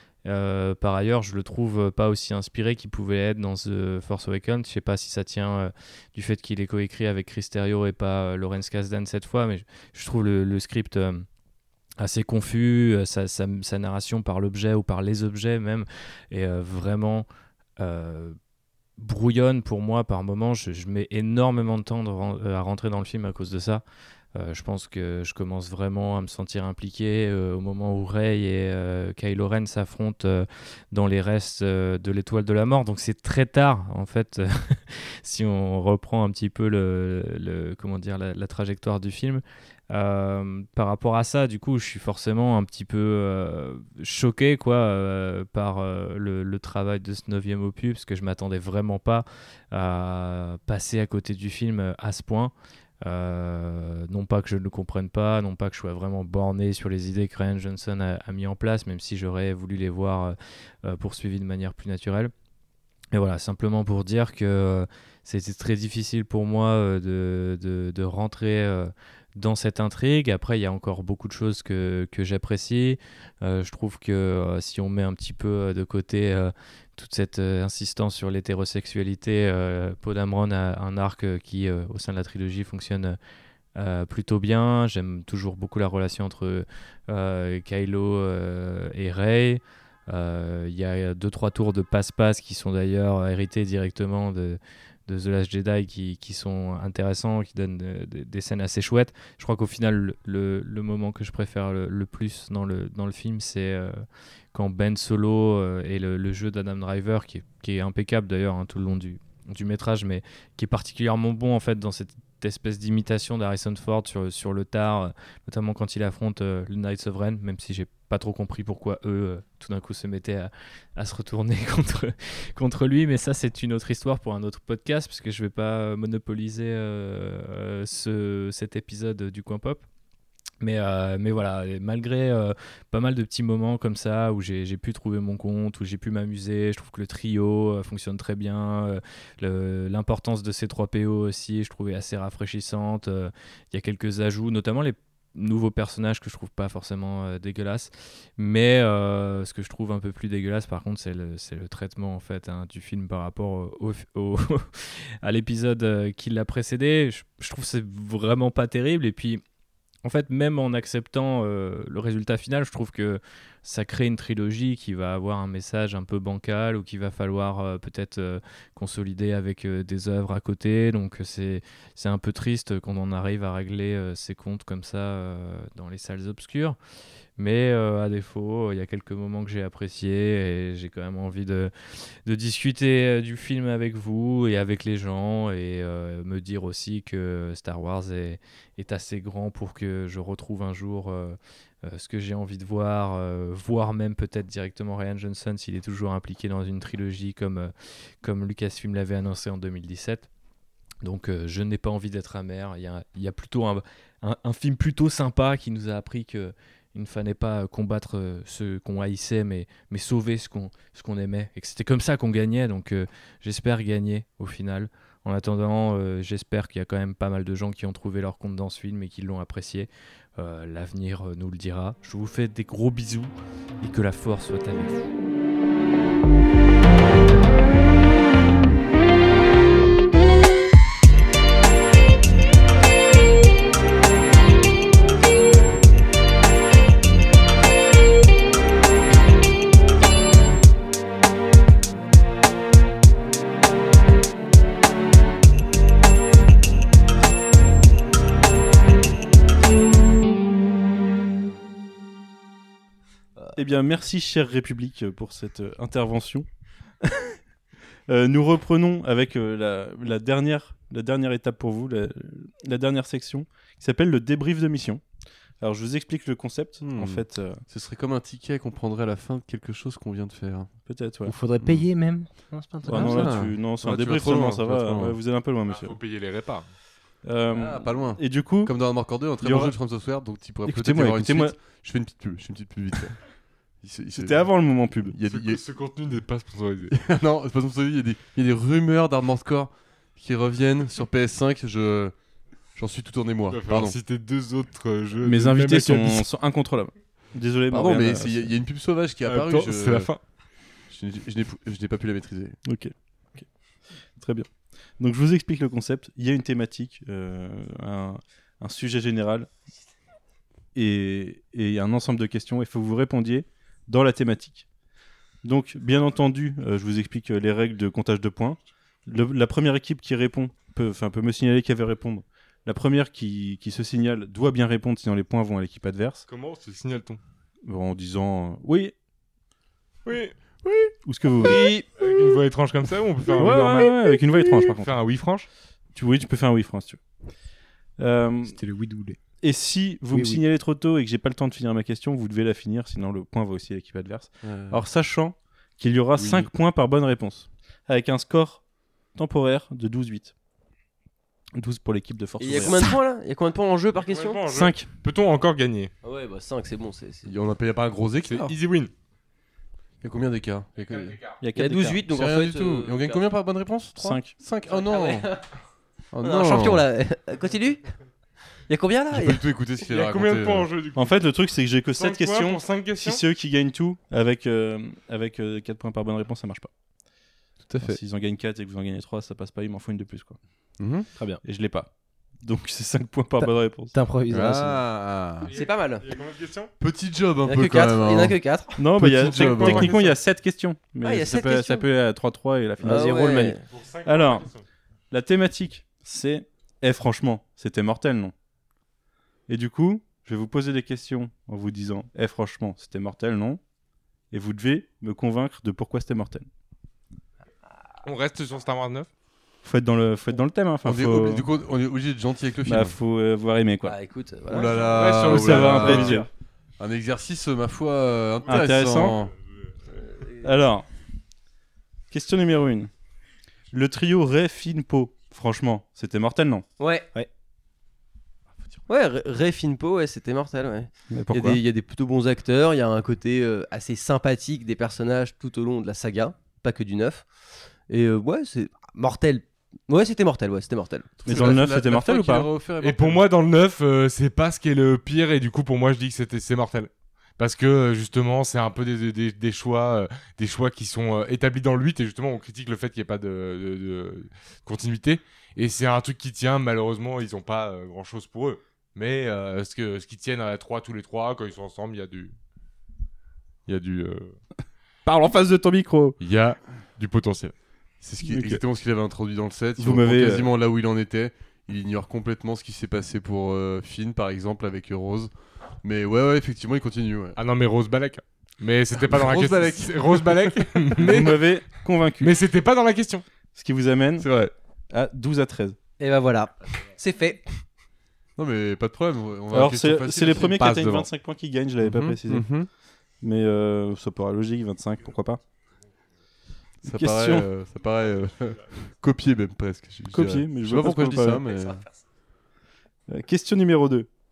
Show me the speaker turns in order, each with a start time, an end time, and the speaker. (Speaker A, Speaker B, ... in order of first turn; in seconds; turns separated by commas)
Speaker A: 0.2-11.2, Speaker A: 12.0-17.3, Speaker A: 17.8-18.4, Speaker A: 19.0-23.8, Speaker A: 24.3-62.3, Speaker A: 63.1-83.2, Speaker A: 83.8-104.0, Speaker A: 104.5-129.8, Speaker A: 130.6-154.7, Speaker A: 155.2-159.4, Speaker A: 160.0-176.8, Speaker A: 177.4-181.7, Speaker A: 182.2-200.3, Speaker A: 201.0-225.1, Speaker B: 253.5-256.4, Speaker B: 258.1-265.0, Speaker B: 265.6-267.6, Speaker C: 266.8-270.7, Speaker B: 270.9-271.3, Speaker D: 271.2-273.4, Speaker B: 272.9-275.9, Speaker C: 272.9-275.2, Speaker E: 275.7-276.6, Speaker B: 277.2-278.7, Speaker C: 277.5-283.2, Speaker B: 279.4-279.7, Speaker B: 280.6-281.6, Speaker C: 283.8-284.5, Speaker B: 284.1-285.1, Speaker C: 285.1-285.6, Speaker E: 285.3-286.9, Speaker C: 286.9-292.1, Speaker C: 292.8-294.0, Speaker E: 293.5-296.2, Speaker B: 295.2-298.5, Speaker C: 297.7-300.1, Speaker E: 299.3-300.2, Speaker C: 300.9-302.6, Speaker B: 302.6-303.4, Speaker B: 304.2-309.5, Speaker B: 310.7-314.6, Speaker B: 315.4-326.2, Speaker E: 326.3-327.2, Speaker B: 327.6-328.9, Speaker E: 330.1-330.9, Speaker B: 331.0-331.7, Speaker E: 331.9-335.5, Speaker B: 333.3-334.9, Speaker B: 335.9-337.0, Speaker B: 338.0-338.5, Speaker D: 338.4-339.2, Speaker B: 339.4-348.6, Speaker D: 340.1-340.4, Speaker C: 344.4-344.8, Speaker C: 346.1-346.5, Speaker B: 349.1-350.3, Speaker B: 351.6-352.9, Speaker F: 352.4-354.4, Speaker E: 354.0-355.9, Speaker B: 354.5-354.9, Speaker F: 356.0-357.3, Speaker C: 357.2-358.5, Speaker E: 358.2-358.9, Speaker C: 360.0-361.2, Speaker B: 361.4-362.0, Speaker F: 361.6-363.3, Speaker C: 362.1-365.3, Speaker B: 364.0-364.3, Speaker F: 364.7-365.4, Speaker C: 366.1-366.8, Speaker F: 366.2-367.9, Speaker F: 368.7-369.4, Speaker C: 369.1-370.7, Speaker E: 369.9-371.1, Speaker B: 370.9-376.7, Speaker E: 372.0-373.2, Speaker C: 377.7-378.0, Speaker B: 377.8-380.4, Speaker C: 380.8-381.1, Speaker B: 381.4-381.9, Speaker B: 382.4-383.9, Speaker D: 383.4-384.8, Speaker C: 384.3-385.5, Speaker E: 385.5-386.7, Speaker F: 385.5-386.0, Speaker C: 386.8-388.4, Speaker F: 387.4-388.8, Speaker B: 388.8-394.5, Speaker C: 388.9-390.0, Speaker E: 389.2-390.1, Speaker F: 391.0-391.9, Speaker F: 392.8-393.6, Speaker E: 393.7-394.6, Speaker B: 395.1-398.3, Speaker B: 399.5-403.6, Speaker B: 404.3-406.5, Speaker E: 408.0-409.1, Speaker B: 409.6-411.5, Speaker C: 410.8-412.9, Speaker B: 412.6-413.9, Speaker F: 413.8-415.1, Speaker C: 414.5-416.2, Speaker E: 414.9-416.2, Speaker B: 415.2-416.3, Speaker C: 416.8-419.3, Speaker B: 418.5-419.2, Speaker F: 420.2-420.4, Speaker B: 420.4-420.8, Speaker B: 422.1-422.9, Speaker B: 423.7-426.6, Speaker F: 426.8-427.1, Speaker F: 428.9-437.2, Speaker B: 431.1-431.6, Speaker F: 437.9-441.1, Speaker C: 441.2-443.3, Speaker B: 441.2-442.5, Speaker E: 442.8-462.3, Speaker E: 463.6-464.3, Speaker B: 465.1-466.2, Speaker E: 466.2-467.5, Speaker C: 468.0-475.3, Speaker B: 468.2-468.6, Speaker B: 469.8-470.5, Speaker C: 475.8-477.4, Speaker E: 477.4-481.4, Speaker C: 479.0-481.2, Speaker B: 481.0-482.3, Speaker E: 482.2-483.2, Speaker B: 483.5-484.3, Speaker C: 484.2-484.5, Speaker B: 484.9-485.8, Speaker F: 486.0-487.4, Speaker C: 488.4-490.7, Speaker B: 489.5-492.5, Speaker E: 490.6-491.0, Speaker C: 491.8-492.7, Speaker B: 493.2-495.4, Speaker C: 496.8-501.8, Speaker B: 496.9-497.5, Speaker B: 500.1-501.4, Speaker B: 503.1-504.1